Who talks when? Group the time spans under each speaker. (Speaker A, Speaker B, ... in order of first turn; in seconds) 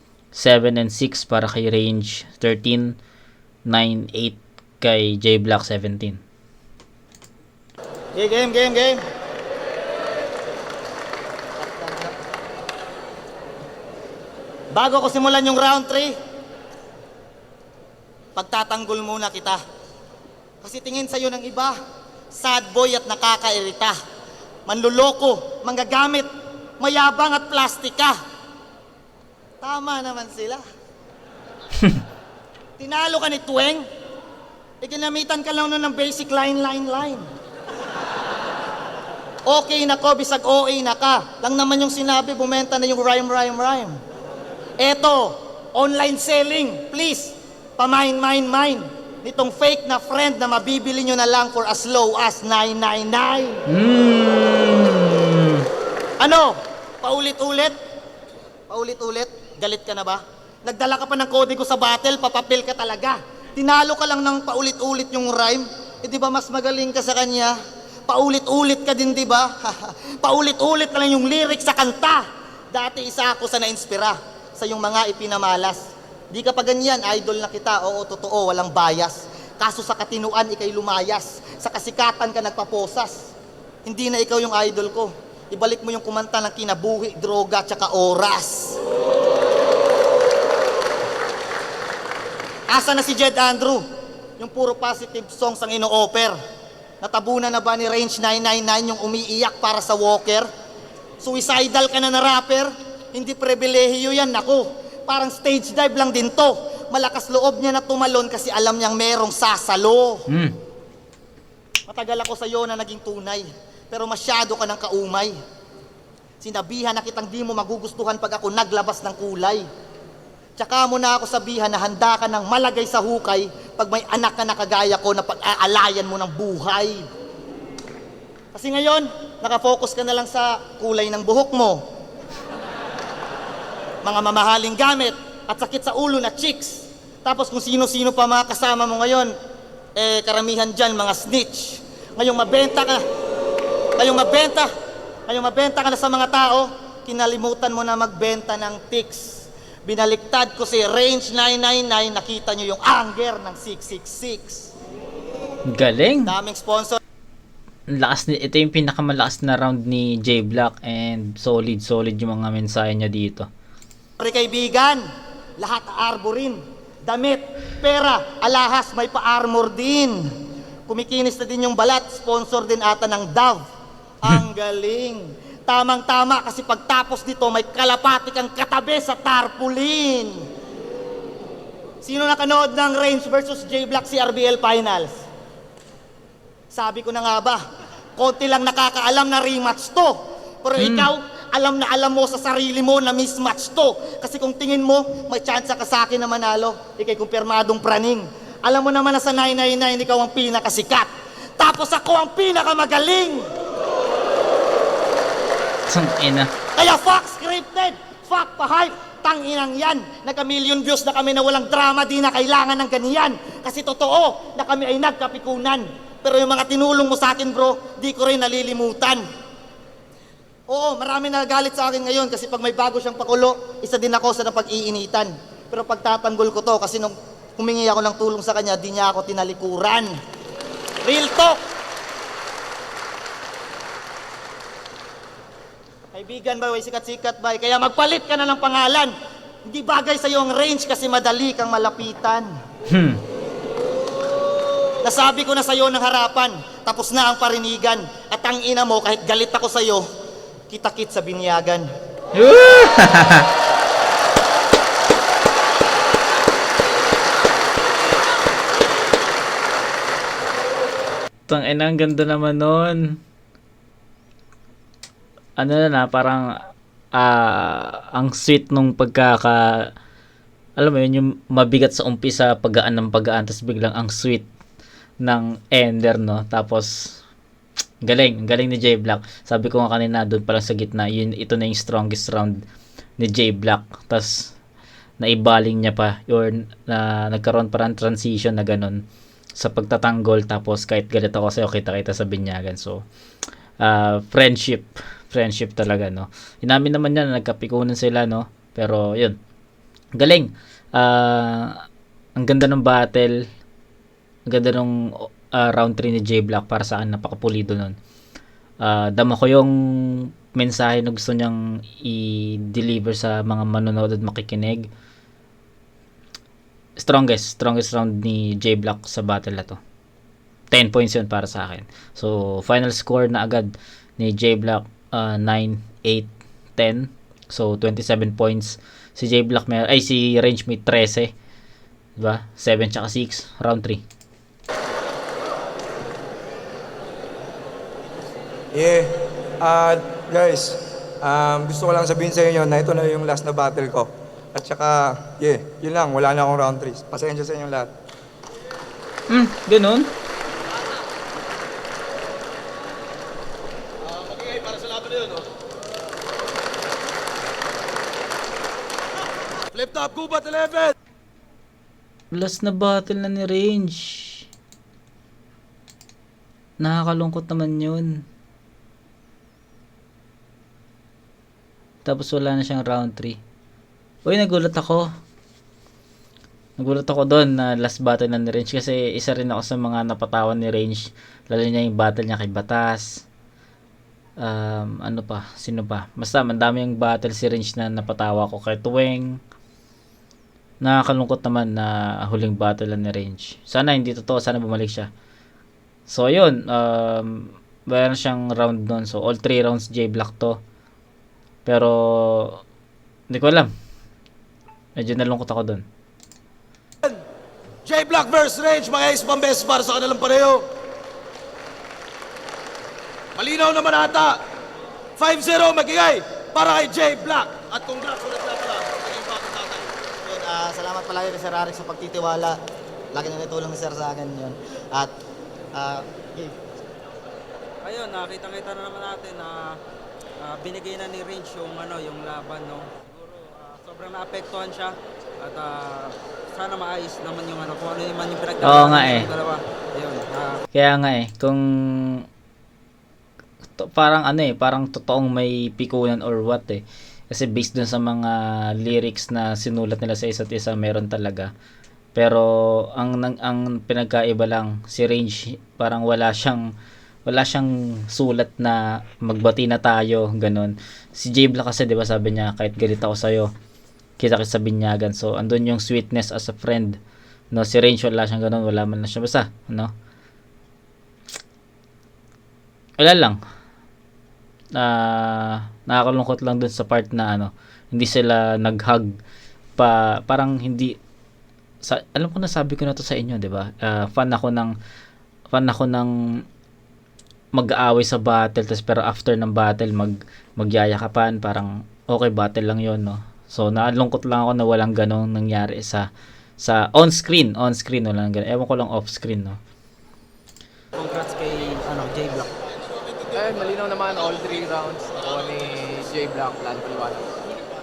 Speaker A: 0.3-3.0, 3.7-6.2, 53.7-55.7, 110.3-110.5, 155.7-156.3, 157.9-163.5, 190.8-191.1, 205.9-206.5, 242.9-243.2, 252.3-253.5, 261.5-263.2, 265.6-266.5, 267.2-269.9, 270.8-274.4, 275.2-277.2, 278.0-282.6, 283.2-284.5, 285.2-289.0, 289.6-293.0, 293.8-299.4, 300.2-301.8, 302.4-303.4, 304.5-307.9, 308.8-314.9, 317.0-319.8, 320.7-331.3, 332.2-334.0, 349.3-350.1, 362.3-364.4, 366.8-368.2, 372.1-373.4, 374.2-375.1, 376.8-383.2, 384.4-389.4, 390.8-395.1, 396.1-400.6, 401.7-402.6, 403.3-403.7, 405.0-405.8, 438.6-439.3, 440.7-442.2, 443.8-451.5, 452.1-456.7, 457.3-463.5, 464.2-467.0, 467.5-469.9, 473.0-473.4, 474.8-479.1, 479.8-481.0, 481.8-484.7, 485.5-486.4, 487.6-496.1, 496.6-499.6
Speaker B: 8.2-9.0, 11.6-12.1, 14.7-16.2, 18.4-19.6, 20.6-21.8, 22.3-24.0, 24.7-28.1, 29.6-30.6, 32.8-33.9, 34.8-37.2, 39.5-44.0, 44.8-53.6, 56.2-57.8, 58.7-67.6, 68.1-83.2, 83.9-88.8, 92.7-93.8, 94.4-96.4, 97.0-100.5, 101.2-110.2, 111.9-115.4, 116.4-119.7, 120.6-127.1, 128.5-131.8, 134.0-139.3, 140.0-143.0, 144.0-144.7, 145.3-149.3, 149.9-154.7, 156.3-157.0, 164.2-165.1, 165.6-170.3, 170.9-173.7, 174.2-180.5, 182.0-185.2, 186.7-187.6, 188.2-203.5, 206.8-219.2, 220.7-230.1, 231.0-231.6, 236.1-239.1, 239.7-242.5, 245.0-250.1, 250.7-251.9, 420.3-422.6, 423.1-425.1, 425.7-426.6
Speaker C: 338.7-347.9
Speaker D: 354.0-355.5, 359.7-360.9, 407.9-410.7, 413.4-414.4, 415.2-419.9
Speaker E: 427.8-429.8, 430.4-440.6, 500.9-502.5
Speaker F: 503.3-507.4